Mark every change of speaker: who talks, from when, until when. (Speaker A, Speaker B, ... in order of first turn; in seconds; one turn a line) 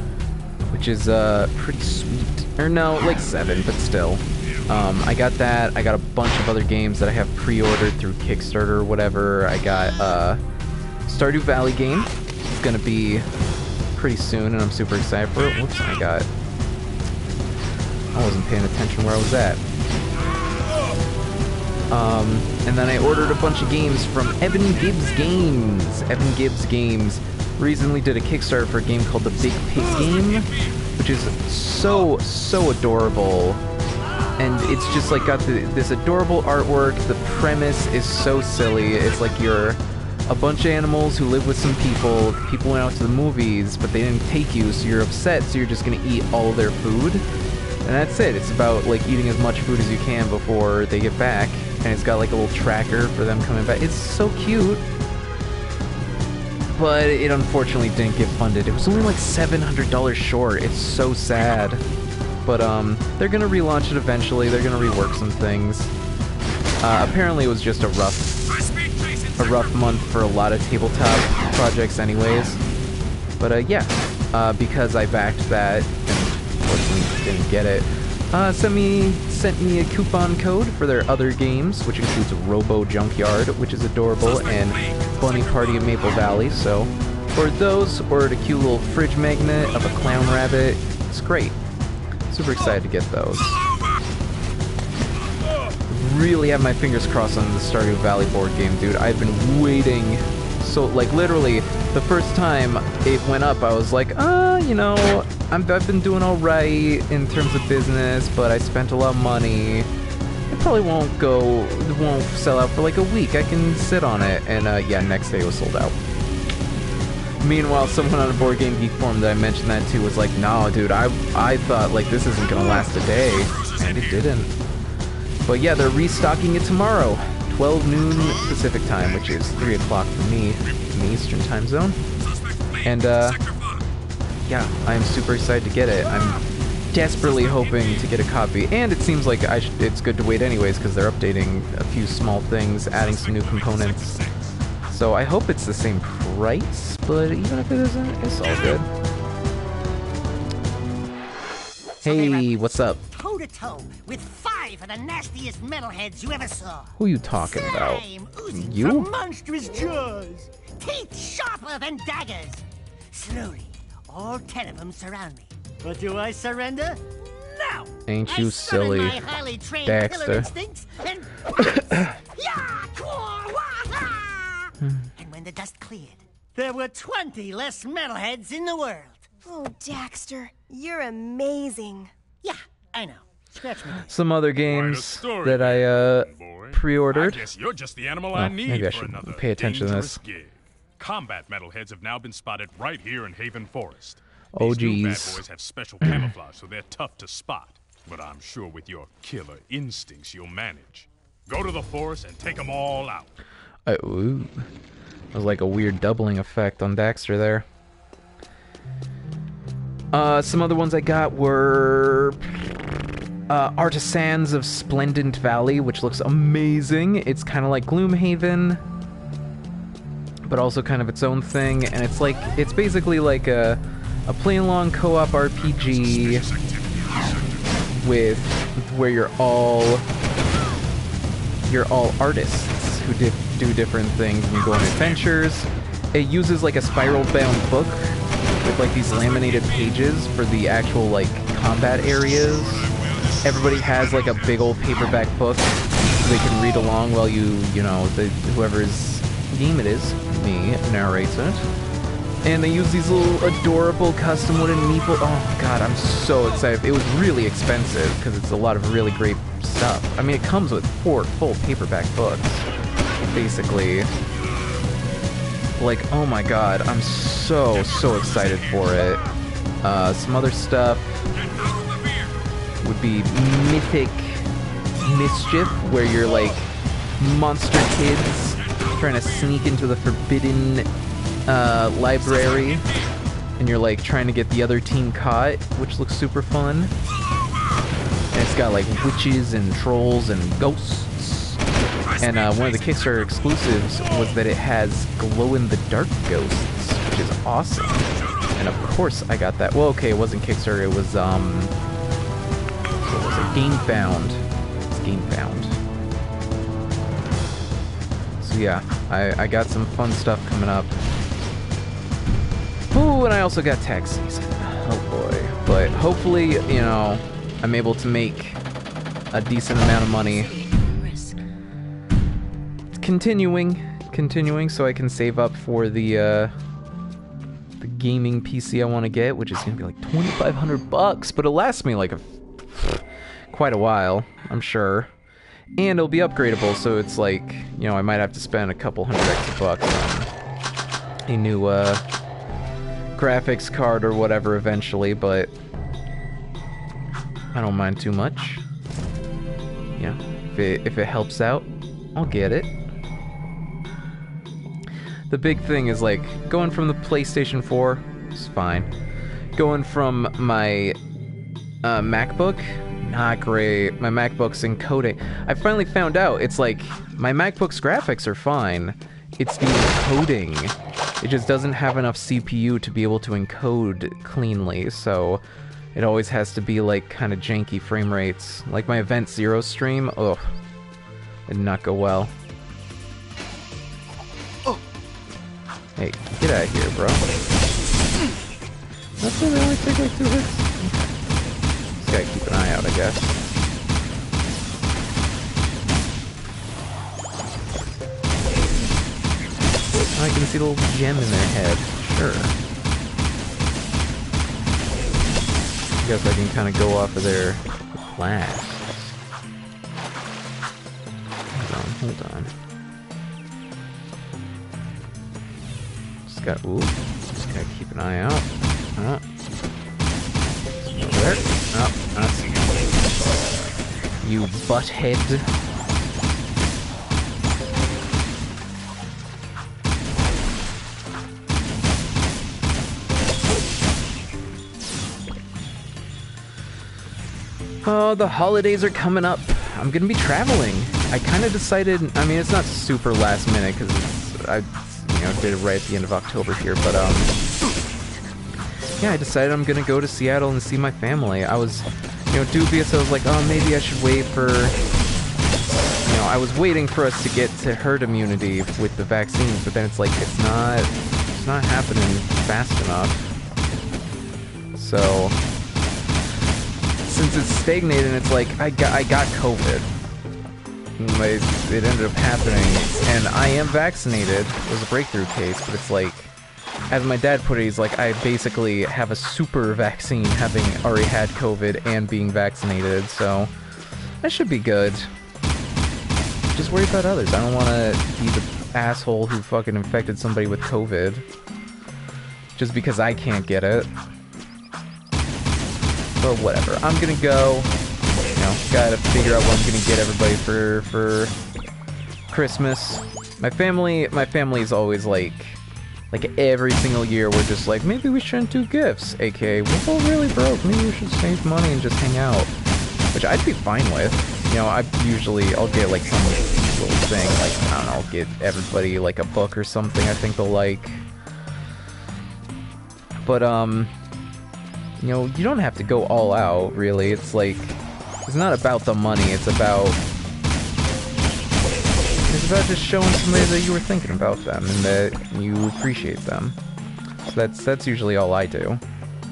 Speaker A: 0.7-10.4
Speaker A: 11.1-13.3
Speaker A: 13.9-16.3
Speaker A: 18.1-19.6
Speaker A: 21.9-33.6
Speaker A: 34.4-47.2
Speaker A: 47.8-54.9
Speaker A: 56.7-61.8
Speaker B: 61.4-61.7
Speaker A: 62.4-65.9
Speaker A: 66.8-68.4
Speaker B: 68.5-70.2
Speaker A: 69.4-72.6
Speaker A: 73.4-91.6
Speaker B: 84.2-86.3
Speaker B: 89.7-90.6
Speaker A: 92.3-93.7
Speaker A: 95.9-109.9
Speaker A: 110.5-116.0
Speaker A: 117.4-124.5
Speaker B: 122.6-124.3
Speaker A: 125.5-132.0
Speaker B: 129.2-129.8
Speaker B: 132.2-133.8
Speaker A: 132.8-133.4
Speaker A: 134.4-144.2
Speaker B: 137.2-138.1
Speaker B: 142.9-144.5
Speaker A: 144.9-148.9
Speaker A: 152.0-153.0
Speaker C: 152.1-152.5
Speaker C: 153.1-179.3
Speaker A: 157.0-159.1
Speaker A: 168.1-169.2
Speaker A: 169.8-170.5
Speaker D: 179.4-182.1
Speaker C: 182.4-184.1
Speaker A: 184.0-187.5
Speaker B: 184.6-203.3
Speaker A: 188.3-190.2
Speaker A: 194.5-195.4
Speaker A: 196.0-196.3
Speaker A: 203.8-204.6
Speaker A: 205.3-207.7
Speaker A: 210.1-212.5
Speaker A: 213.5-218.8
Speaker A: 220.4-226.5
Speaker B: 225.6-227.8
Speaker A: 228.0-230.1
Speaker A: 231.7-251.7
Speaker B: 234.6-235.2
Speaker B: 239.0-239.9
Speaker B: 242.9-244.8
Speaker A: 252.4-262.7
Speaker A: 263.3-264.1
Speaker A: 265.8-269.2
Speaker B: 267.7-269.0
Speaker A: 269.8-271.3
Speaker B: 271.4-272.3
Speaker A: 272.8-274.5
Speaker A: 275.0-280.9
Speaker B: 278.7-279.0
Speaker A: 281.5-282.9
Speaker A: 283.6-286.9
Speaker A: 288.3-291.6
Speaker B: 292.0-293.8
Speaker A: 292.2-301.7
Speaker B: 298.1-298.5
Speaker A: 303.0-305.8
Speaker A: 308.4-311.0
Speaker A: 312.9-318.6
Speaker A: 319.3-320.5
Speaker D: 320.0-321.4
Speaker A: 322.9-326.5
Speaker A: 327.8-335.1
Speaker A: 335.8-340.3
Speaker A: 341.3-342.0
Speaker A: 343.1-345.5
Speaker A: 347.5-348.6
Speaker A: 349.9-352.7
Speaker A: 355.3-358.9
Speaker A: 359.6-361.0
Speaker A: 361.8-375.4
Speaker A: 375.9-380.5
Speaker A: 381.5-382.3
Speaker A: 386.0-387.3
Speaker A: 389.2-391.1
Speaker A: 392.0-393.4
Speaker A: 400.1-402.6
Speaker A: 406.0-409.1
Speaker A: 411.5-412.5
Speaker A: 416.3-419.2
Speaker A: 420.8-422.8
Speaker A: 424.2-425.5
Speaker A: 437.8-447.3
Speaker A: 449.0-454.8
Speaker A: 456.0-463.3
Speaker A: 464.7-465.4
Speaker A: 467.0-469.9
Speaker A: 471.0-476.3
Speaker A: 476.9-483.5
Speaker A: 484.2-485.1
Speaker A: 486.5-491.2
Speaker A: 492.6-493.9
Speaker A: 496.2-497.7
Speaker A: 498.3-501.3
Speaker A: 502.3-512.5
Speaker A: 513.1-521.0
Speaker A: 523.2-523.9
Speaker A: 525.0-530.0
Speaker A: 532.3-536.6
Speaker A: 537.3-538.8